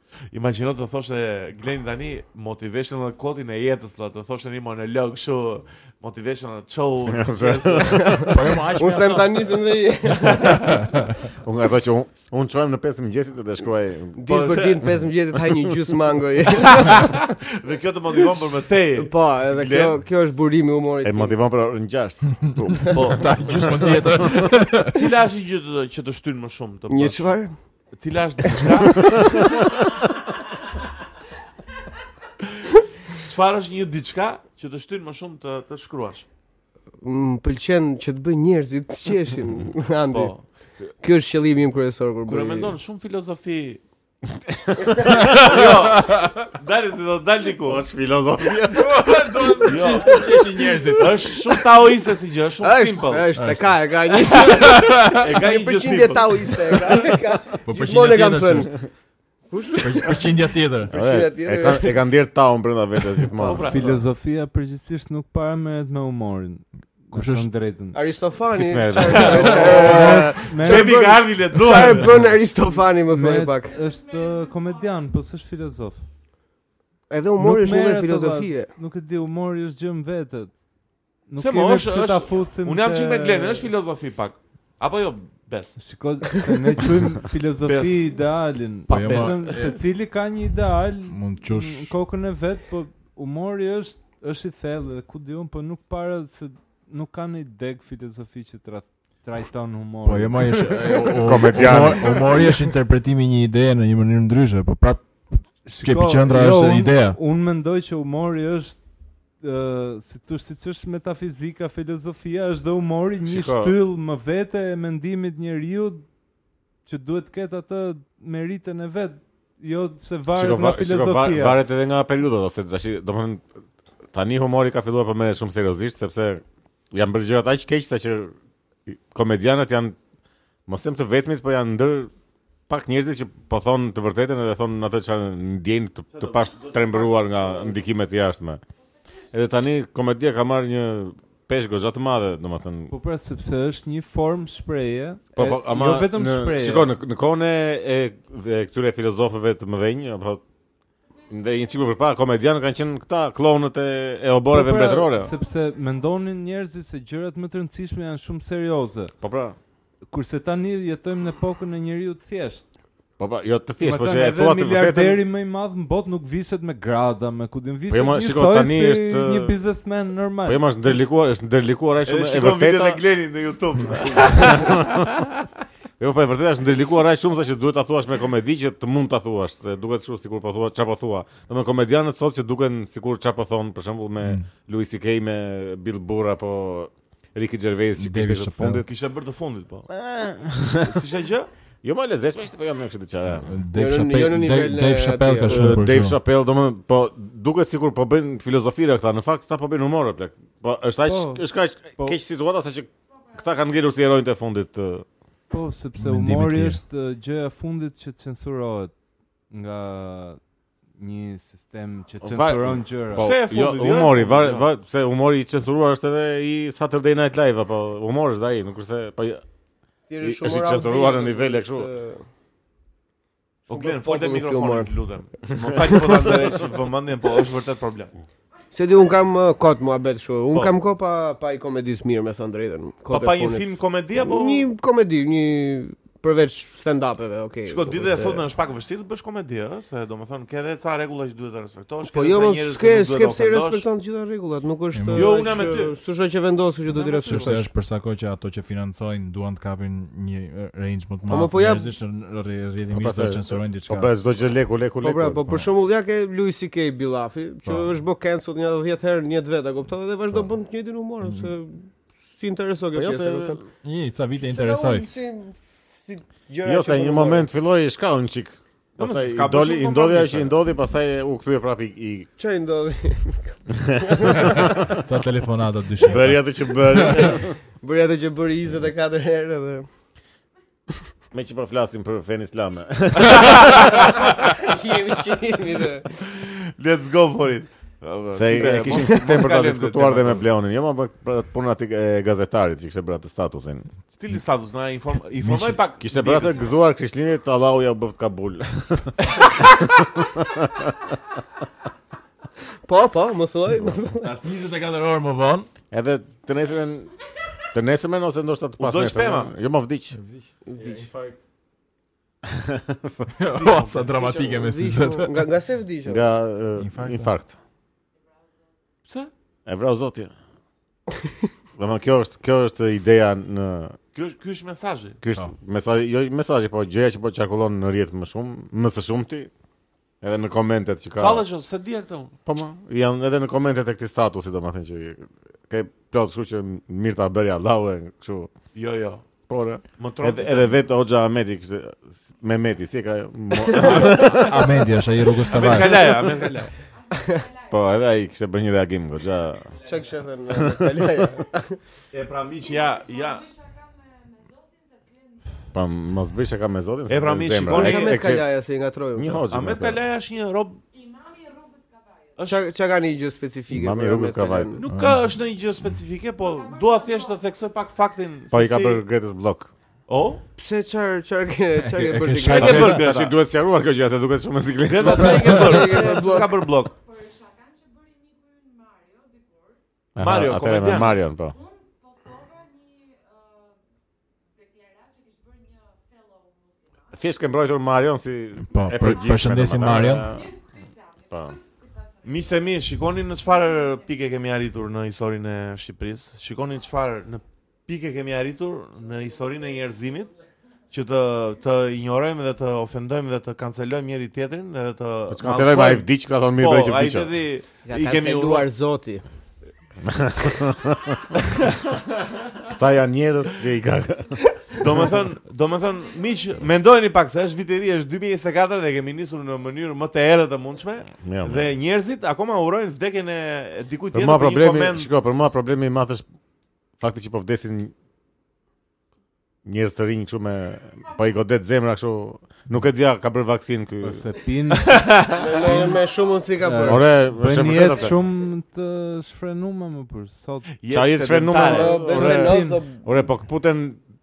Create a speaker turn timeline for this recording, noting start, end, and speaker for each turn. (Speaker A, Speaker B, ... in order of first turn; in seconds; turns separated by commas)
Speaker A: 0.3-8.2, Speaker B: 7.1-8.3, Speaker C: 7.9-10.7, Speaker D: 8.3-9.5, Speaker D: 10.6-11.1, Speaker B: 11.4-14.2, Speaker C: 14.2-17.1, Speaker A: 14.3-14.8, Speaker A: 16.5-20.0, Speaker C: 18.9-21.3, Speaker B: 21.0-22.9, Speaker A: 22.9-23.3, Speaker D: 23.1-25.1, Speaker A: 24.9-27.3, Speaker C: 26.9-27.6, Speaker A: 27.9-29.6, Speaker C: 28.9-29.3, Speaker A: 33.3-36.3, Speaker C: 37.0-40.4, Speaker A: 40.1-40.5, Speaker C: 41.0-42.8, Speaker A: 42.3-43.8, Speaker B: 44.5-44.9, Speaker C: 44.8-45.3, Speaker A: 45.1-47.8, Speaker D: 45.3-46.5, Speaker B: 47.6-49.0, Speaker D: 48.7-51.6, Speaker A: 49.6-50.3, Speaker C: 50.2-50.6, Speaker A: 50.9-53.3, Speaker C: 52.6-58.8, Speaker D: 53.4-53.7, Speaker D: 54.3-55.3, Speaker A: 55.2-56.9, Speaker D: 57.6-58.7, Speaker C: 59.5-62.0, Speaker D: 59.8-60.9, Speaker B: 60.9-63.7, Speaker A: 63.4-64.0, Speaker E: 63.6-68.0, Speaker D: 67.1-67.5, Speaker C: 67.9-73.8, Speaker B: 68.5-70.3, Speaker A: 69.1-72.1, Speaker D: 69.4-69.7, Speaker E: 69.8-70.9, Speaker E: 73.1-76.0, Speaker C: 77.1-78.7, Speaker E: 77.4-80.5, Speaker E: 81.3-83.7, Speaker A: 81.4-85.8, Speaker E: 85.8-101.0, Speaker A: 87.7-88.1, Speaker A: 88.9-89.5, Speaker D: 88.9-89.8, Speaker D: 91.1-91.9, Speaker D: 100.0-107.2, Speaker B: 101.2-102.2, Speaker E: 105.7-108.8, Speaker E: 109.4-116.1, Speaker B: 113.2-113.8, Speaker E: 116.9-121.6, Speaker B: 120.3-123.5, Speaker B: 124.1-128.3, Speaker B: 128.9-130.0, Speaker B: 130.7-132.1, Speaker B: 132.7-138.6, Speaker A: 136.1-137.8, Speaker B: 139.3-142.9, Speaker E: 142.9-146.9, Speaker B: 145.3-150.4, Speaker B: 151.3-155.3, Speaker E: 154.5-159.1, Speaker B: 159.2-159.6, Speaker E: 160.1-162.7, Speaker B: 163.2-165.2, Speaker E: 163.8-170.7, Speaker B: 167.9-169.6, Speaker B: 170.4-173.0, Speaker A: 172.1-175.2, Speaker B: 174.2-175.1, Speaker B: 176.0-188.9, Speaker D: 188.0-188.8, Speaker A: 188.8-189.9, Speaker B: 189.9-191.0, Speaker A: 190.8-191.5, Speaker B: 191.8-193.5, Speaker D: 193.3-196.2, Speaker C: 193.7-195.8, Speaker B: 195.4-205.1, Speaker E: 201.1-202.2, Speaker E: 205.5-208.9, Speaker D: 206.0-206.8, Speaker E: 209.5-210.4, Speaker E: 211.0-213.3, Speaker B: 212.2-219.4, Speaker A: 213.2-214.7, Speaker C: 220.1-222.2, Speaker B: 220.2-221.9, Speaker A: 223.7-228.1, Speaker C: 223.7-224.9, Speaker C: 225.9-226.2, Speaker C: 228.7-233.7, Speaker A: 233.1-234.7, Speaker C: 234.2-238.4, Speaker A: 237.7-243.8, Speaker C: 242.1-247.7, Speaker D: 244.9-245.4, Speaker A: 245.1-246.0, Speaker A: 247.0-247.6, Speaker D: 247.0-254.1, Speaker C: 251.3-251.9, Speaker B: 252.9-255.6, Speaker C: 255.0-263.7, Speaker B: 262.9-263.6, Speaker D: 263.8-265.1, Speaker C: 264.4-267.5, Speaker B: 266.6-272.3, Speaker A: 269.0-270.6, Speaker C: 272.4-274.9, Speaker D: 274.4-277.4, Speaker B: 276.0-277.5, Speaker C: 277.8-279.9, Speaker B: 281.3-284.0, Speaker C: 284.3-286.1, Speaker A: 286.2-290.4, Speaker B: 288.3-293.9, Speaker A: 294.2-296.7, Speaker D: 295.4-295.8, Speaker B: 296.0-301.0, Speaker C: 302.9-304.3, Speaker D: 304.2-305.7, Speaker B: 305.9-307.1, Speaker B: 307.7-310.2, Speaker A: 308.8-309.5, Speaker D: 310.1-311.4, Speaker C: 310.7-311.1, Speaker B: 312.5-313.3, Speaker D: 313.4-315.4, Speaker A: 313.6-314.1, Speaker C: 314.1-316.2, Speaker B: 316.1-317.6, Speaker D: 316.8-317.3, Speaker B: 319.7-320.3, Speaker B: 321.8-324.0, Speaker A: 324.1-325.2, Speaker B: 325.2-329.5, Speaker B: 330.2-331.4, Speaker A: 331.2-332.3, Speaker B: 332.5-338.5, Speaker A: 338.8-339.2, Speaker B: 339.5-344.8, Speaker A: 340.0-340.8, Speaker D: 343.8-346.2, Speaker A: 345.4-346.7, Speaker C: 347.1-347.4, Speaker B: 347.6-349.8, Speaker C: 349.8-351.8, Speaker B: 350.5-351.0, Speaker A: 352.1-353.5, Speaker B: 355.7-358.5, Speaker A: 357.1-358.3, Speaker C: 357.7-359.4, Speaker B: 359.1-360.0, Speaker A: 359.5-360.8, Speaker C: 362.5-364.9, Speaker B: 363.7-364.8, Speaker A: 364.8-369.0, Speaker D: 364.9-365.4, Speaker B: 368.5-369.7, Speaker A: 370.1-370.4, Speaker C: 370.6-373.0, Speaker D: 371.9-373.0, Speaker A: 372.5-373.4, Speaker B: 372.6-375.8, Speaker A: 374.9-377.0, Speaker C: 375.0-376.6, Speaker B: 380.1-381.6, Speaker A: 380.2-381.2, Speaker B: 387.1-390.6, Speaker D: 388.7-390.4, Speaker B: 391.3-391.6, Speaker A: 392.2-400.3, Speaker A: 400.9-408.7, Speaker B: 405.3-407.3, Speaker C: 407.9-409.2, Speaker B: 410.0-411.2, Speaker A: 411.5-412.0, Speaker B: 412.6-414.4, Speaker A: 414.8-425.1, Speaker B: 421.2-421.7, Speaker B: 424.1-426.2, Speaker B: 427.0-427.9, Speaker B: 429.6-434.2, Speaker E: 434.0-435.1, Speaker A: 434.8-435.8, Speaker C: 435.3-437.1, Speaker E: 435.6-436.0, Speaker E: 436.6-440.7, Speaker B: 436.9-438.2, Speaker A: 440.8-442.1, Speaker B: 440.9-444.0, Speaker C: 441.7-443.0, Speaker E: 442.1-442.8